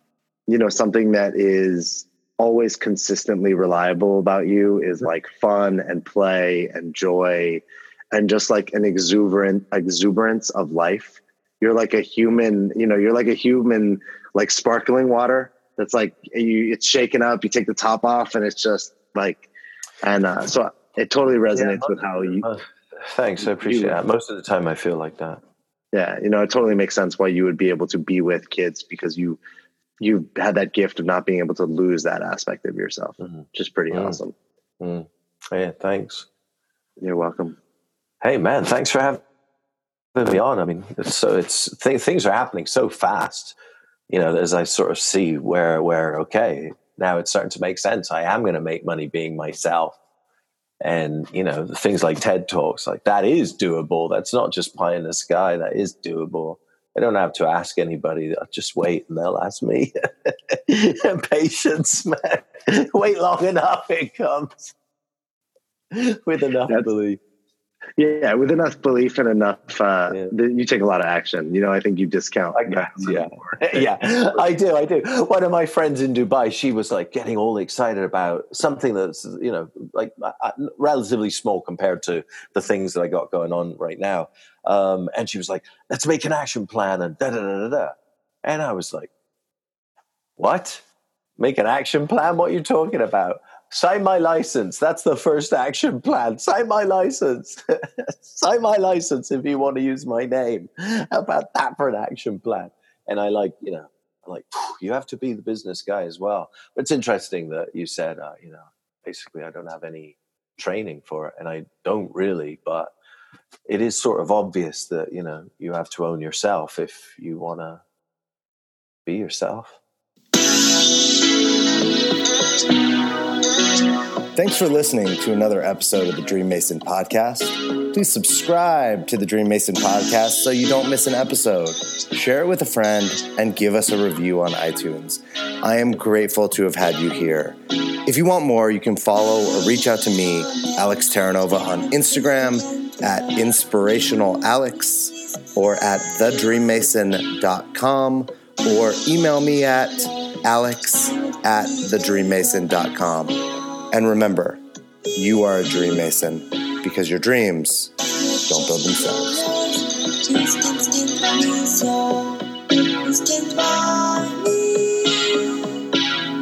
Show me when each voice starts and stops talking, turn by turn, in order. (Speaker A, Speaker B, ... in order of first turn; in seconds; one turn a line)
Speaker A: 0.5-19.5
Speaker A: 20.0-22.5
Speaker B: 21.5-25.4
Speaker A: 23.4-24.0
Speaker A: 25.9-29.4
Speaker A: 30.0-34.3
Speaker B: 33.2-34.2
Speaker B: 34.8-36.2
Speaker A: 37.0-37.5
Speaker B: 38.2-39.2
Speaker B: 40.1-43.5
Speaker B: 44.1-50.0
Speaker B: 50.8-64.7
Speaker B: 65.9-67.2
Speaker A: 68.0-73.8
Speaker B: 72.5-89.1
Speaker B: 90.4-90.8
Speaker B: 91.4-112.9
Speaker B: 113.7-117.8
Speaker B: 119.0-119.8
Speaker C: 124.3-154.6
Speaker C: 155.2-165.6